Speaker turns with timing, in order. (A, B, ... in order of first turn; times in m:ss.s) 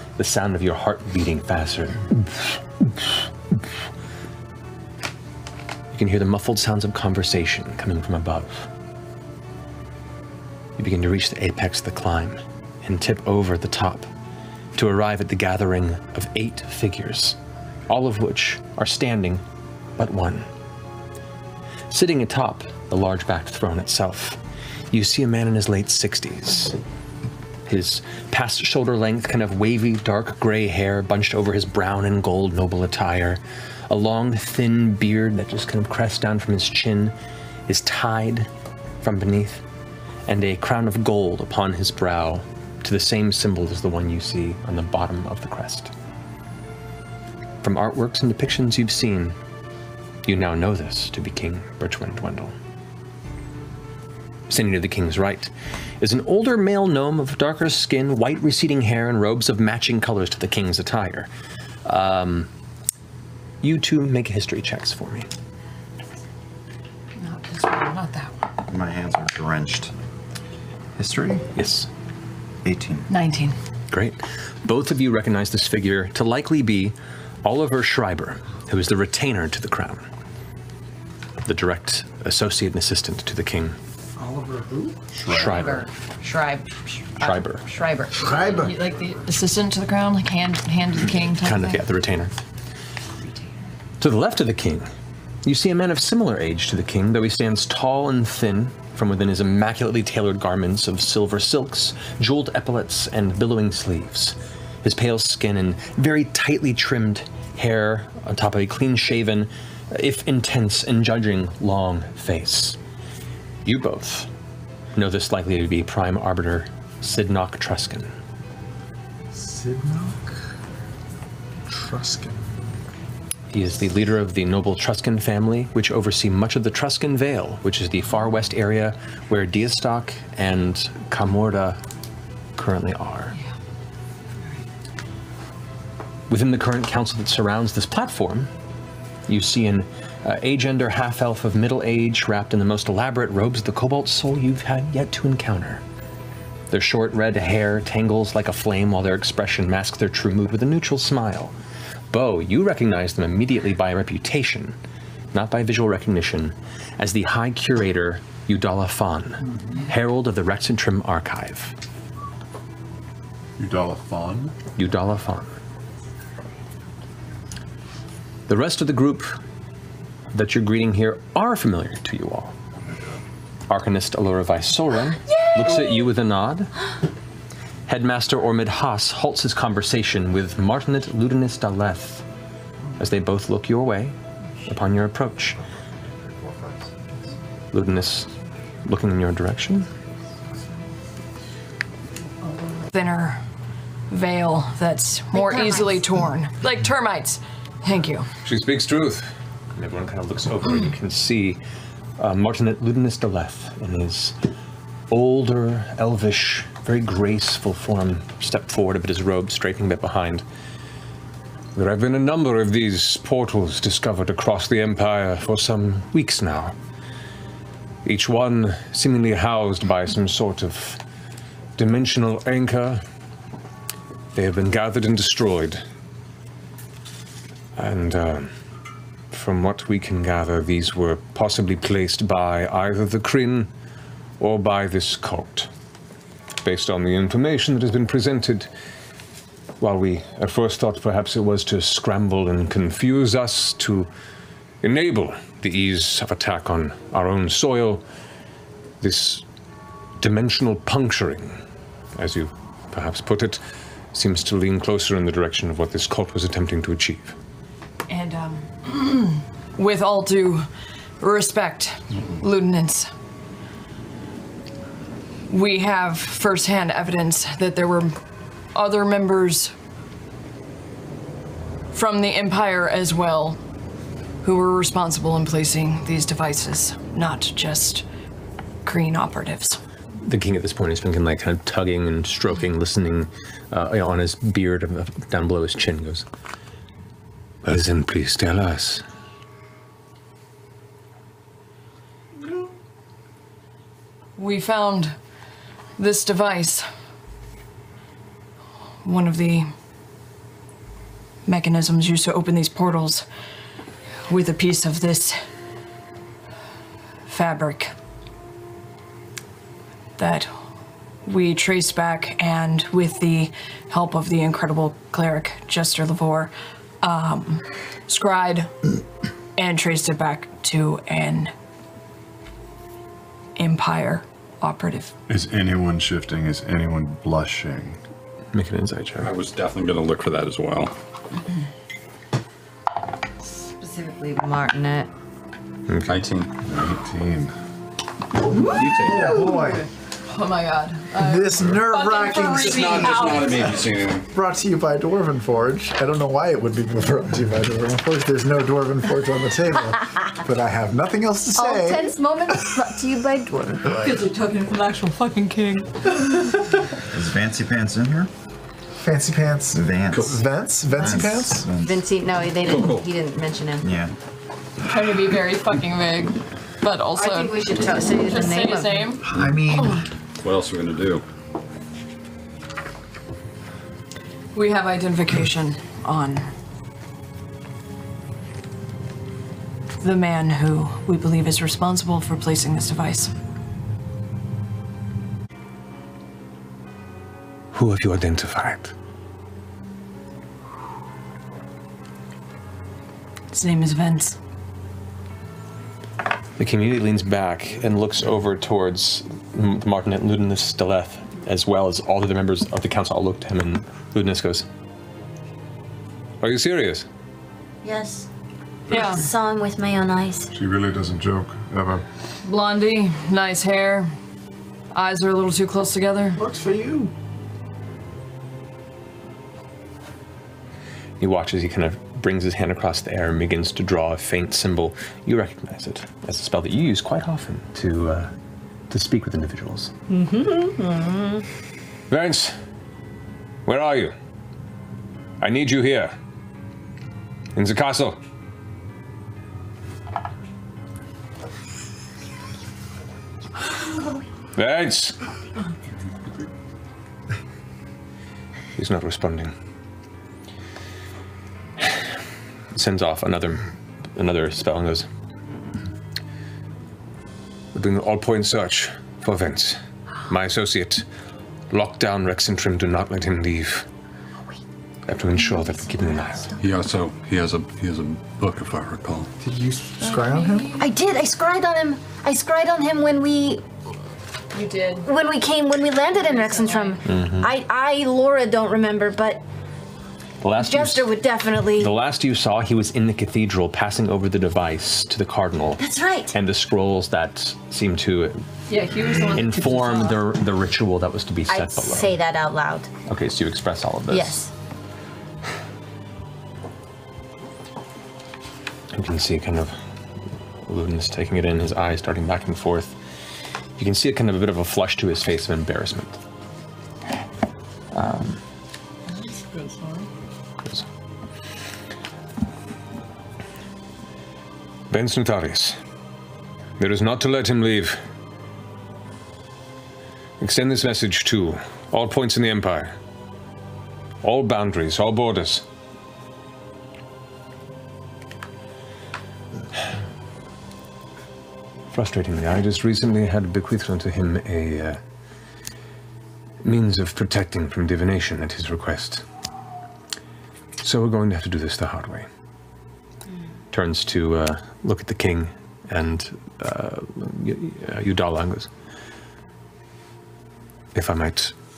0:00.2-0:03.2 A
0:05.9-0:08.7 A
0:10.8-0:14.1 A
0:14.7-0:19.4 A
0:20.0-0:20.5 A
0:21.9-0:24.4 A
0:24.9-0:26.8 A
0:27.6-0:37.1 A
0:37.7-0:38.5 A
0:39.0-0:39.6 A
0:40.3-0:45.9 A
0:47.6-0:49.4 A
0:50.2-0:52.5 A
0:54.5-1:01.3 A
1:01.8-1:02.5 A
1:03.6-1:05.3 A
1:07.2-1:08.5 B
1:08.6-1:09.9 C
1:11.0-1:11.5 C
1:11.5-1:11.9 A
1:12.6-1:13.1 C
1:13.1-1:13.6 B
1:13.9-1:20.1 A
1:21.4-1:23.8 A
1:24.2-1:25.0 D
1:25.2-1:28.7 E
1:25.3-1:25.9 A
1:27.2-1:27.6 A
1:28.2-1:28.7 D
1:28.5-1:31.8 B
1:31.4-1:32.3 A
1:34.0-1:34.9 A
1:35.4-1:52.8 A
1:53.6-1:54.3 A
1:54.9-1:58.1 A
1:59.3-2:00.3 D
2:01.7-2:02.4 D
2:03.5-2:11.8 A
2:12.6-2:13.3 A
2:16.3-2:18.5 A
2:19.3-2:25.8 A
2:26.7-2:31.5 A
2:32.1-2:34.8 A
2:35.3-2:41.7 A
2:43.6-2:44.5 F
2:44.8-2:45.6 A
2:48.5-2:49.4 A
2:50.3-2:52.5 A
2:53.7-2:56.7 A
2:55.4-2:56.0 E
2:57.9-3:02.2 A
3:03.0-3:05.6 A
3:06.4-3:06.9 C
3:07.7-3:08.3 A
3:08.8-3:09.9 A
3:12.9-3:13.4 B
3:14.1-3:18.3 B
3:15.3-3:16.0 E
3:18.4-3:21.6 A
3:22.2-3:24.4 A
3:25.1-3:30.4 A
3:31.7-3:36.8 A
3:38.0-3:41.0 A
3:41.8-3:43.0 A
3:44.3-3:45.8 A
3:47.8-3:48.5 A
3:49.3-3:53.7 A
3:54.4-3:55.7 A
3:56.6-3:58.7 A
3:59.8-4:04.1 A
4:04.8-4:08.0 A
4:09.0-4:09.4 A
4:10.2-4:11.6 A
4:12.1-4:13.6 A
4:14.1-4:17.4 A
4:18.1-4:20.7 B
4:21.2-4:23.1 B
4:25.5-4:28.2 B
4:28.7-4:29.7 B
4:31.9-4:33.6 B
4:34.4-4:38.0 B
4:38.8-4:39.8 B
4:40.2-4:46.3 A
4:47.6-4:49.0 A
4:54.4-4:55.1 B
4:56.0-4:56.9 B
4:59.0-4:59.7 B
5:01.4-5:03.2 B
5:04.3-5:05.5 B
5:07.3-5:07.9 B
5:10.2-5:10.5 B
5:11.2-5:16.5 B
5:17.0-5:18.9 B
5:19.6-5:21.5 B
5:23.6-5:25.1 B
5:25.3-5:28.0 F
5:28.5-5:29.3 A
5:29.2-5:30.9 G
5:33.6-5:35.1 E
5:35.9-5:36.3 A
5:36.1-5:37.0 G
5:36.7-5:37.5 F
5:38.5-5:39.9 D
5:38.6-5:43.8 B
5:38.8-5:39.1 G
5:41.1-5:43.8 D
5:42.5-5:44.3 G
5:44.3-5:52.1 D
5:51.5-5:54.2 E
5:53.8-5:54.1 D
5:54.0-5:55.9 B
5:57.0-5:58.3 C
5:59.0-6:01.6 D
5:59.7-6:00.4 C
6:00.1-6:00.4 G
6:01.0-6:02.0 C
6:01.7-6:04.0 E
6:02.6-6:03.1 G
6:03.8-6:04.1 C
6:04.8-6:09.2 B
6:07.1-6:09.2 E
6:09.3-6:10.0 D
6:10.4-6:11.2 G
6:14.5-6:16.5 B
6:20.0-6:23.3 B
6:27.7-6:28.9 A
6:33.5-6:34.4 B
6:36.6-6:44.7 A
6:46.4-6:47.1 A
6:47.8-6:48.3 E
6:48.9-6:49.2 B
6:48.9-6:50.5 E
6:50.5-6:52.0 F
6:52.4-6:54.1 B
6:54.9-6:56.4 B
6:56.3-6:57.1 D
7:01.2-7:08.3 A
7:08.9-7:09.9 A
7:10.1-7:11.4 E
7:12.1-7:12.5 A
7:13.6-7:14.1 A
7:15.4-7:16.1 A
7:17.6-7:18.2 A
7:24.6-7:25.2 A
7:28.8-7:29.5 A
7:32.7-7:35.1 A
7:37.7-7:41.0 A
7:41.7-7:43.9 A
7:45.1-7:46.6 A
7:45.7-7:46.6 E
7:46.6-7:49.3 G
7:49.4-7:50.8 D
7:50.0-7:50.9 B
7:50.8-7:53.6 E
7:54.5-7:55.1 B
7:55.0-7:59.4 E
7:56.1-7:57.0 B
7:57.0-7:57.5 A
8:00.4-8:01.1 A
8:00.6-8:01.9 E
8:01.8-8:05.8 A
8:05.8-8:06.3 E
8:06.3-8:08.4 A
8:08.7-8:10.2 B
8:09.2-8:12.1 A
8:11.5-8:12.9 E
8:13.1-8:14.4 A
8:14.1-8:14.5 E
8:18.9-8:19.8 A
8:20.6-8:23.0 A
8:23.8-8:26.2 A
8:27.9-8:28.4 A
8:29.1-8:30.1 B
8:34.9-8:35.8 A
8:36.8-8:38.0 A
8:40.4-8:43.0 A
8:44.2-8:45.6 A
8:51.9-8:55.0 A
8:56.6-8:59.2 A
9:00.8-9:02.3 A
9:03.7-9:08.7 A
9:10.9-9:11.5 A